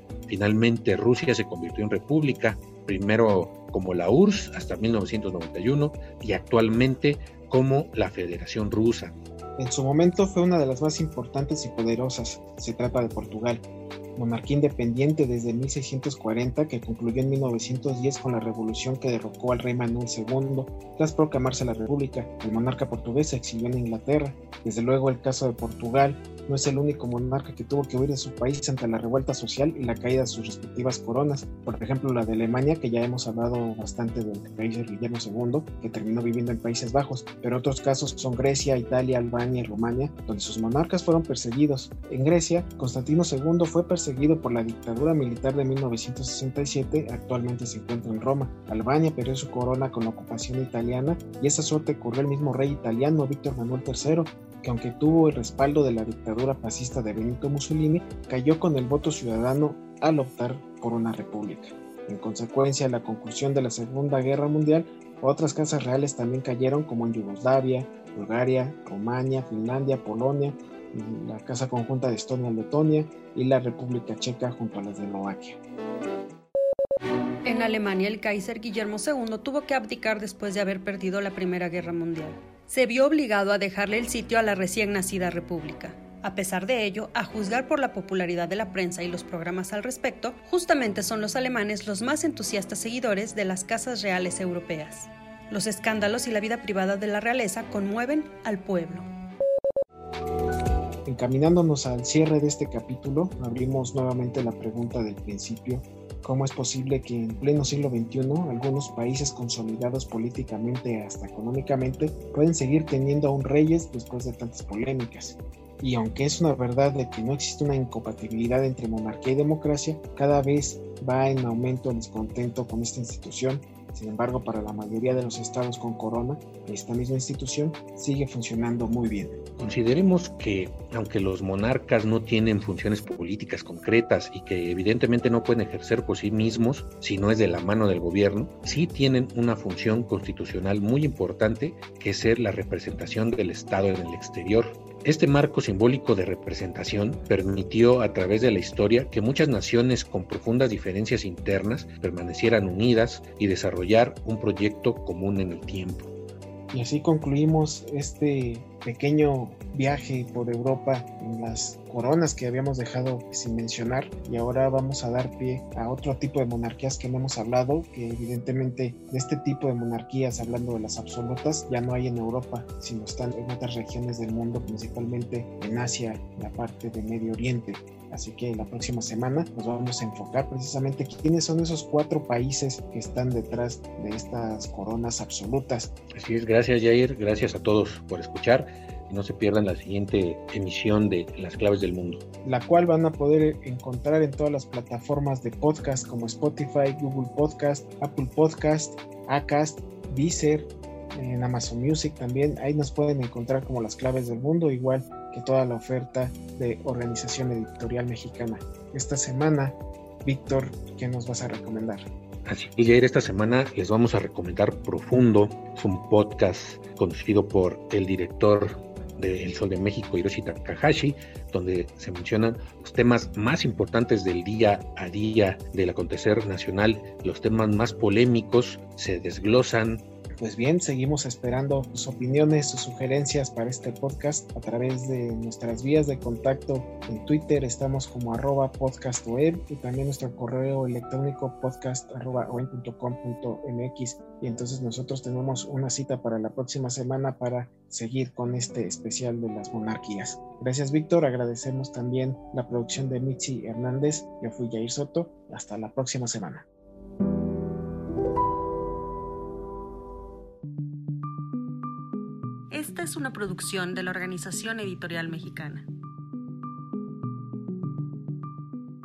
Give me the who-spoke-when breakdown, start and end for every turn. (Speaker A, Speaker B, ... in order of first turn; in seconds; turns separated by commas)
Speaker A: 0.3-9.2, Speaker B: 9.6-75.6, Speaker C: 77.4-99.1, Speaker B: 101.0-129.4, Speaker A: 129.6-156.1, Speaker B: 156.7-185.9, Speaker A: 186.1-192.2, Speaker B: 192.4-212.1, Speaker A: 212.4-230.0, Speaker B: 230.4-256.6, Speaker C: 262.7-265.9